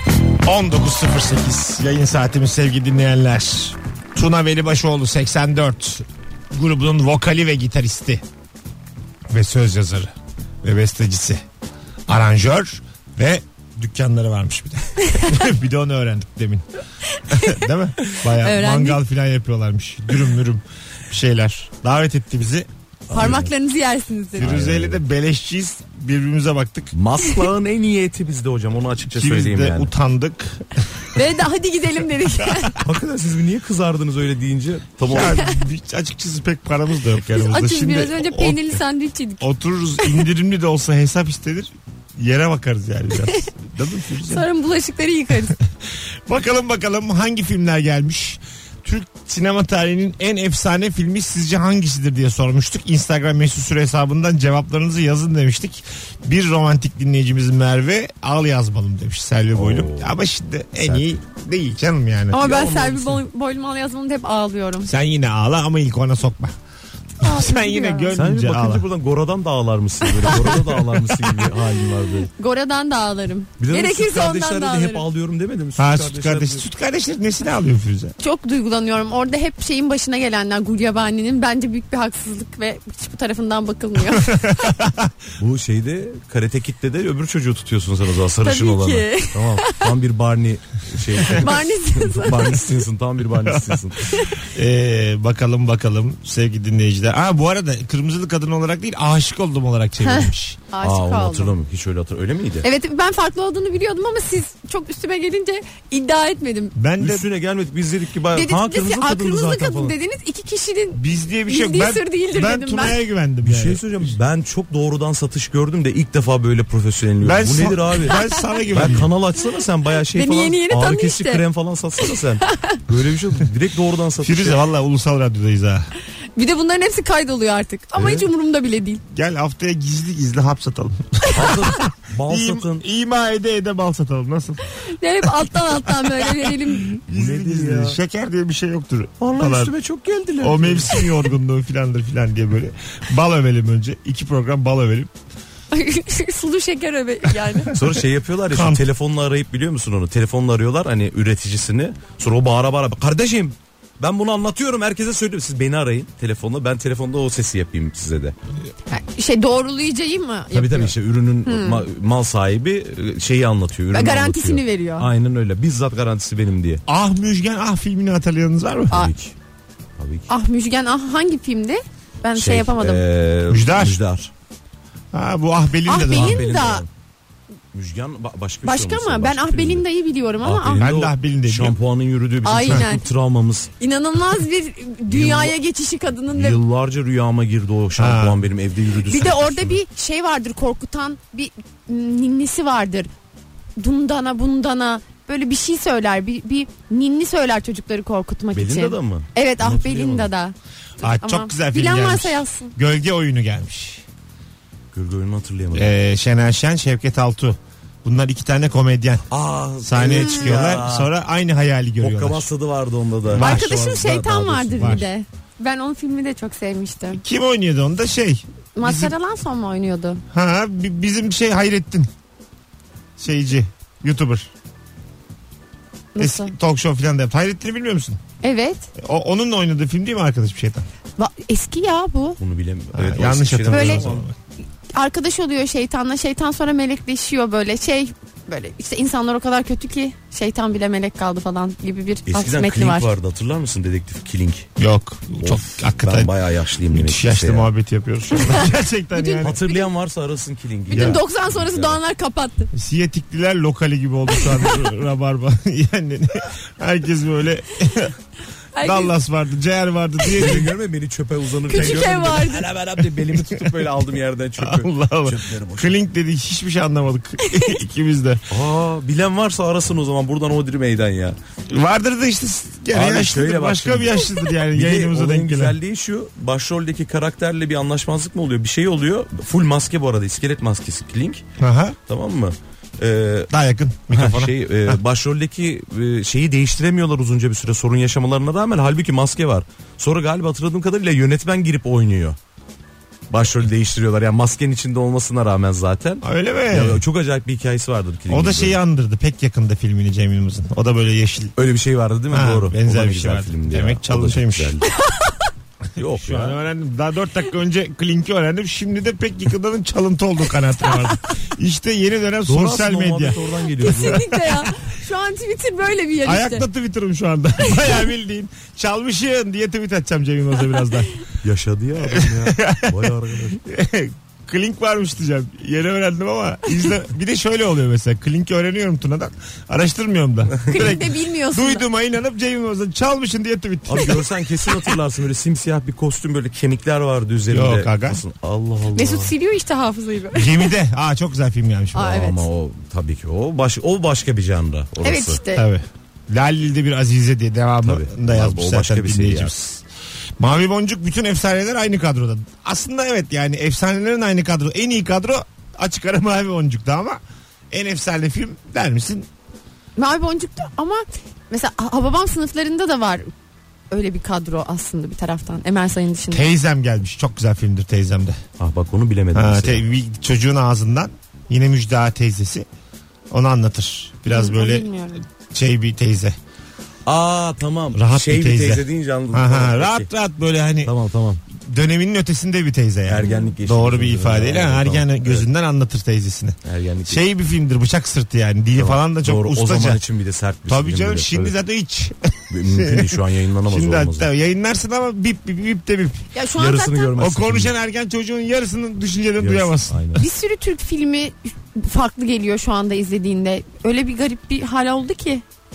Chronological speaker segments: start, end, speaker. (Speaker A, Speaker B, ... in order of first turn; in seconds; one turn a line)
Speaker A: 0.4-8.2
Speaker A: 9.3-11.4
Speaker A: 12.1-16.6
Speaker B: 15.0-15.4
Speaker B: 17.1-19.0
Speaker A: 17.3-22.7
Speaker B: 23.1-24.5
Speaker C: 23.1-23.5
Speaker A: 24.4-26.9
Speaker C: 24.4-25.0
Speaker C: 26.9-29.9
Speaker A: 29.1-31.1
Speaker B: 31.1-32.8
Speaker A: 32.4-32.7
Speaker C: 32.8-35.4
Speaker A: 35.1-38.8
Speaker B: 35.2-35.6
Speaker B: 37.3-39.5
Speaker A: 39.4-44.5
Speaker B: 44.2-45.6
Speaker A: 46.3-62.5
Speaker C: 59.5-60.1
Speaker C: 60.8-61.2
Speaker B: 62.3-64.9
Speaker C: 62.4-63.2
Speaker A: 64.8-66.5
Speaker B: 67.2-68.2
Speaker A: 67.2-68.8
Speaker C: 68.1-72.3
Speaker B: 70.2-71.5
Speaker B: 72.3-75.0
Speaker C: 73.6-76.7
Speaker A: 75.8-78.2
Speaker B: 78.2-84.4
Speaker A: 84.1-85.1
Speaker C: 85.4-94.1
Speaker B: 88.4-89.8
Speaker B: 91.2-92.6
Speaker A: 93.5-93.8
Speaker B: 94.1-94.4
Speaker A: 94.3-100.6
Speaker B: 100.0-101.5
Speaker C: 100.8-102.7
Speaker B: 102.6-106.7
Speaker A: 106.8-107.2
Speaker C: 107.0-109.9
Speaker B: 108.3-113.0
Speaker A: 110.9-113.8
Speaker C: 113.4-124.6
Speaker A: 117.2-119.1
Speaker B: 118.1-118.7
Speaker B: 120.1-121.4
Speaker B: 122.0-122.8
Speaker A: 124.2-125.9
Speaker B: 126.3-129.0
Speaker C: 128.0-128.3
Speaker A: 129.1-134.6
Speaker C: 131.3-132.8
Speaker B: 134.8-136.9
Speaker A: 135.2-139.7
Speaker C: 137.1-138.0
Speaker C: 139.2-141.2
Speaker A: 140.4-145.1
Speaker B: 145.7-147.7
Speaker C: 147.7-158.3
Speaker A: 148.5-148.8
Speaker B: 158.9-160.9
Speaker C: 160.5-166.8
Speaker B: 161.4-161.8
Speaker B: 163.9-165.1
Speaker A: 166.9-169.1
Speaker C: 168.9-169.3
Speaker C: 170.0-170.3
Speaker B: 170.3-173.0
Speaker C: 172.3-174.3
Speaker A: 173.5-174.0
Speaker A: 175.1-176.5
Speaker B: 175.9-176.8
Speaker C: 176.1-176.9
Speaker C: 177.7-179.8
Speaker B: 178.6-180.8
Speaker C: 180.4-183.7
Speaker A: 180.8-181.8
Speaker B: 182.4-183.0
Speaker B: 183.8-186.6
Speaker C: 185.1-185.5
Speaker C: 186.3-189.8
Speaker A: 187.9-188.5
Speaker B: 189.0-193.1
Speaker B: 193.8-202.7
Speaker C: 198.5-200.3
Speaker A: 201.0-204.0
Speaker C: 204.9-205.9
Speaker A: 205.7-209.2
Speaker C: 209.3-211.1
Speaker A: 209.8-212.5
Speaker B: 210.2-210.4
Speaker C: 212.0-215.0
Speaker A: 213.3-213.7
Speaker B: 213.4-217.2
Speaker A: 214.8-215.1
Speaker A: 217.1-219.1
Speaker B: 218.8-220.2
Speaker A: 220.3-222.1
Speaker A: 223.2-224.5
Speaker B: 226.1-226.5
Speaker A: 226.2-228.2
Speaker B: 228.4-228.9
Speaker A: 229.0-230.8
Speaker B: 231.2-232.4
Speaker C: 232.4-234.2
Speaker A: 232.9-234.3
Speaker B: 233.7-234.1
Speaker B: 234.9-243.1
Speaker C: 242.3-244.7
Speaker A: 244.8-246.3
Speaker C: 245.4-247.7
Speaker A: 246.9-249.6
Speaker B: 248.5-249.8
Speaker C: 249.4-252.0
Speaker B: 250.9-252.7
Speaker A: 250.9-251.2
Speaker A: 252.7-258.2
Speaker B: 258.7-259.1
Speaker A: 258.8-260.7
Speaker C: 260.3-266.0
Speaker B: 261.7-262.7
Speaker A: 261.8-262.1
Speaker A: 263.1-263.8
Speaker A: 264.6-268.4
Speaker B: 267.4-267.8
Speaker C: 268.5-271.4
Speaker A: 271.7-275.8
Speaker C: 272.9-281.4
Speaker A: 281.6-282.0
Speaker C: 282.1-283.5
Speaker A: 283.5-285.0
Speaker C: 284.1-292.4
Speaker C: 293.3-298.8
Speaker A: 296.2-297.0
Speaker A: 298.3-301.5
Speaker C: 301.6-304.8
Speaker A: 302.3-304.8
Speaker B: 305.1-305.3
Speaker C: 305.9-306.6
Speaker A: 306.2-314.6
Speaker C: 312.4-314.2
Speaker B: 313.8-316.6
Speaker A: 316.2-321.1
Speaker C: 321.4-323.6
Speaker A: 322.0-334.2
Speaker B: 330.7-331.8
Speaker C: 333.9-339.3
Speaker A: 337.5-338.2
Speaker B: 338.9-340.7
Speaker A: 340.3-342.2
Speaker B: 341.9-342.4
Speaker C: 342.0-345.4
Speaker B: 345.0-345.7
Speaker A: 345.5-349.8
Speaker C: 347.8-349.5
Speaker A: 350.4-359.3
Speaker B: 360.0-363.3
Speaker B: 363.9-366.5
Speaker A: 366.3-368.4
Speaker C: 368.6-369.8
Speaker A: 369.3-372.7
Speaker A: 373.3-374.9
Speaker B: 374.3-375.2
Speaker A: 375.5-376.4
Speaker C: 377.1-380.1
Speaker A: 377.9-380.9
Speaker C: 380.8-381.4
Speaker A: 381.6-390.0
Speaker C: 383.1-385.5
Speaker B: 383.2-383.5
Speaker C: 386.6-387.2
Speaker C: 388.8-391.5
Speaker A: 390.7-396.3
Speaker C: 392.5-394.3
Speaker B: 396.3-397.2
Speaker C: 396.6-397.7
Speaker A: 397.2-400.1
Speaker C: 399.4-400.2
Speaker B: 400.1-405.4